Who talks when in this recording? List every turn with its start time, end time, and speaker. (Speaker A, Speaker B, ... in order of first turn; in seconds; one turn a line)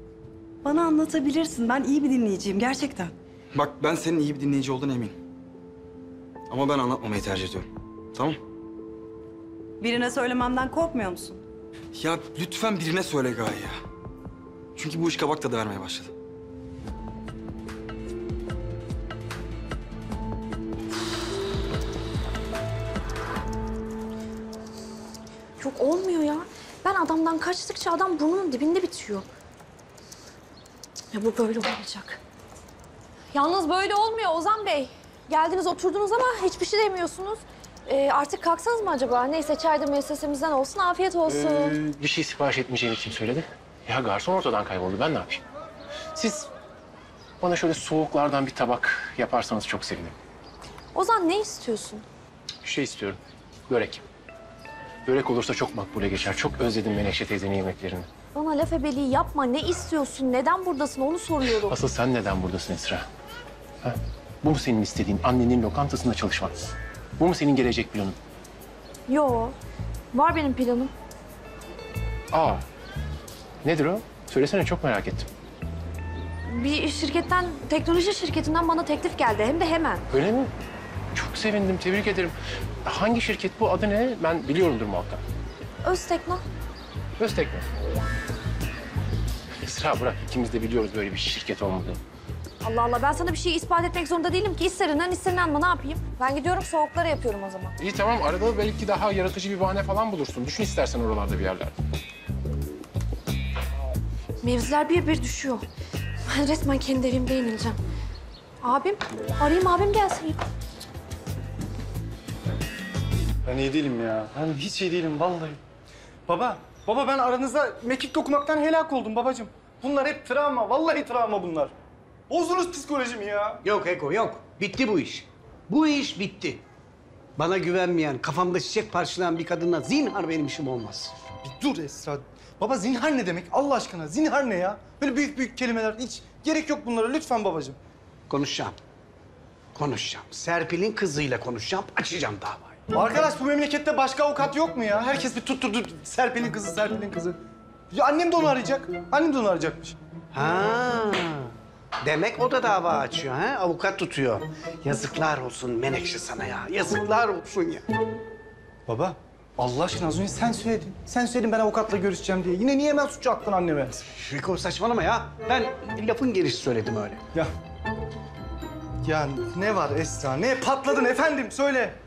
Speaker A: 0.6-3.1
Speaker B: 3.5-5.2
Speaker B: 6.5-8.4
Speaker A: 9.8-11.4
Speaker B: 12.0-13.8
Speaker B: 14.8-16.1
Speaker C: 25.6-29.2
Speaker C: 31.1-32.2
Speaker C: 33.3-41.8
Speaker D: 41.3-45.4
Speaker D: 46.1-46.5
Speaker D: 47.4-50.1
Speaker C: 50.9-52.0
Speaker D: 52.6-54.0
Speaker D: 55.1-58.1
Speaker C: 58.3-61.8
Speaker D: 61.7-63.1
Speaker D: 63.8-66.6
Speaker D: 67.2-68.2
Speaker C: 69.1-69.5
Speaker C: 70.1-70.9
Speaker D: 72.3-72.6
Speaker D: 73.6-75.3
Speaker C: 76.5-80.0
Speaker D: 80.1-80.5
Speaker D: 81.1-85.2
Speaker C: 85.8-86.4
Speaker D: 87.2-87.7
Speaker D: 89.6-92.0
Speaker C: 92.6-97.8
Speaker D: 97.8-101.7
Speaker C: 104.4-105.7
Speaker C: 106.3-107.8
Speaker C: 108.6-110.4
Speaker E: 113.5-115.6
Speaker E: 116.3-121.7
Speaker E: 122.3-123.6
Speaker F: 123.6-126.6
Speaker F: 127.4-131.1
Speaker E: 131.4-137.8
Speaker F: 138.3-138.8
Speaker F: 139.8-142.8
Speaker E: 142.9-147.4
Speaker E: 147.9-150.0
Speaker F: 150.3-151.5
Speaker F: 152.0-157.8
Speaker E: 158.9-164.0
Speaker F: 164.1-167.2
Speaker E: 169.0-172.0